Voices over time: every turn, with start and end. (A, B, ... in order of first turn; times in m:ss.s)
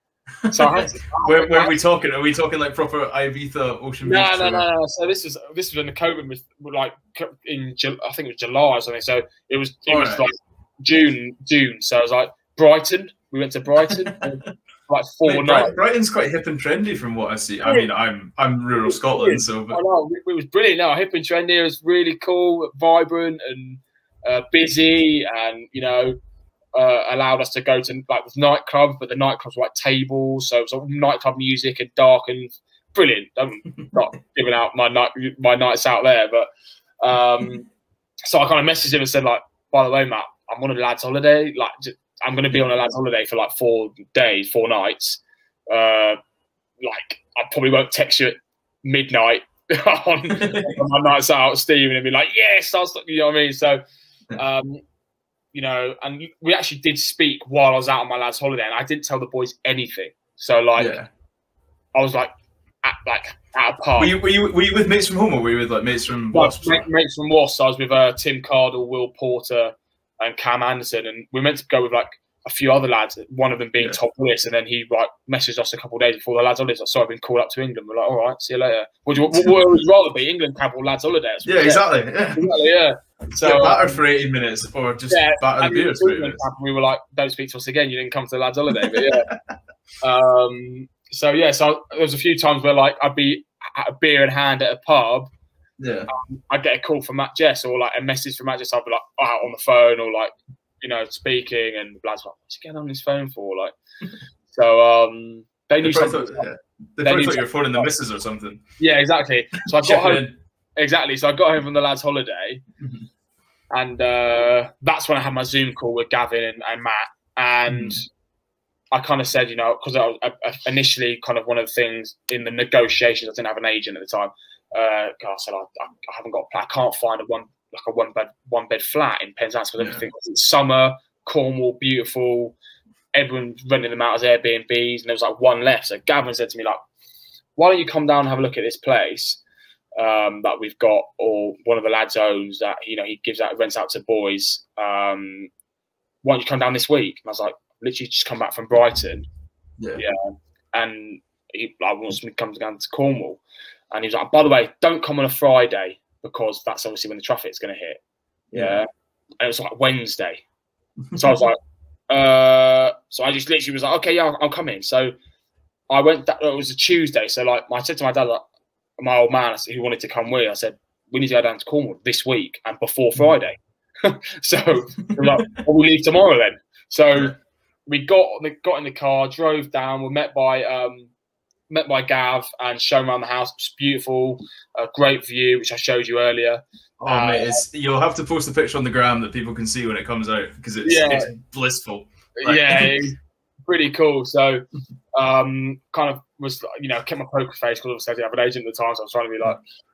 0:00.4-0:04.7 A
0:00.5-0:01.8 B
0:04.0-0:15.8 B
0:09.9-0:10.3 A
0:13.9-0:14.2 A
0:15.2-0:19.8 A
0:18.9-0:26.2 B
0:26.8-0:36.5 B
0:37.0-0:37.6 B
0:38.3-0:46.2 B
0:46.8-0:53.8 B
0:50.3-0:50.7 A
0:54.4-0:54.8 B
0:55.5-1:01.0 B
1:00.8-1:01.1 A
1:02.0-1:02.3 B
1:02.8-1:04.1 B
1:04.0-1:06.9 A
1:06.3-1:24.0 B
1:19.3-1:19.6 A
1:21.4-1:22.5 A
1:23.4-1:26.4 A
1:25.1-1:29.3 B
1:28.8-1:29.3 A
1:30.0-1:35.3 B
1:35.8-1:36.1 A
1:36.1-1:43.7 B
1:44.5-1:46.5 B
1:45.8-1:48.6 A
1:47.0-1:47.9 B
1:48.8-1:50.2 B
1:49.8-1:50.3 A
1:50.8-1:52.6 B
1:52.8-1:53.1 A
1:53.7-1:58.0 B
1:57.7-1:58.0 A
1:58.9-2:12.6 B
2:09.8-2:10.0 A
2:13.2-2:16.8 B
2:17.6-2:19.4 B
2:20.0-2:25.5 B
2:26.2-2:29.3 B
2:30.7-2:38.0 B
2:38.5-2:38.8 A
2:38.5-2:38.9 B
2:39.4-2:40.4 B
2:41.2-2:41.6 B
2:42.1-2:45.1 B
2:45.9-2:48.4 B
2:49.0-2:57.3 B
2:55.2-2:55.6 A
2:57.9-3:01.1 B
3:01.7-3:07.6 B
3:07.0-3:13.0 A
3:10.8-3:11.3 B
3:12.4-3:14.6 B
3:15.2-3:19.6 B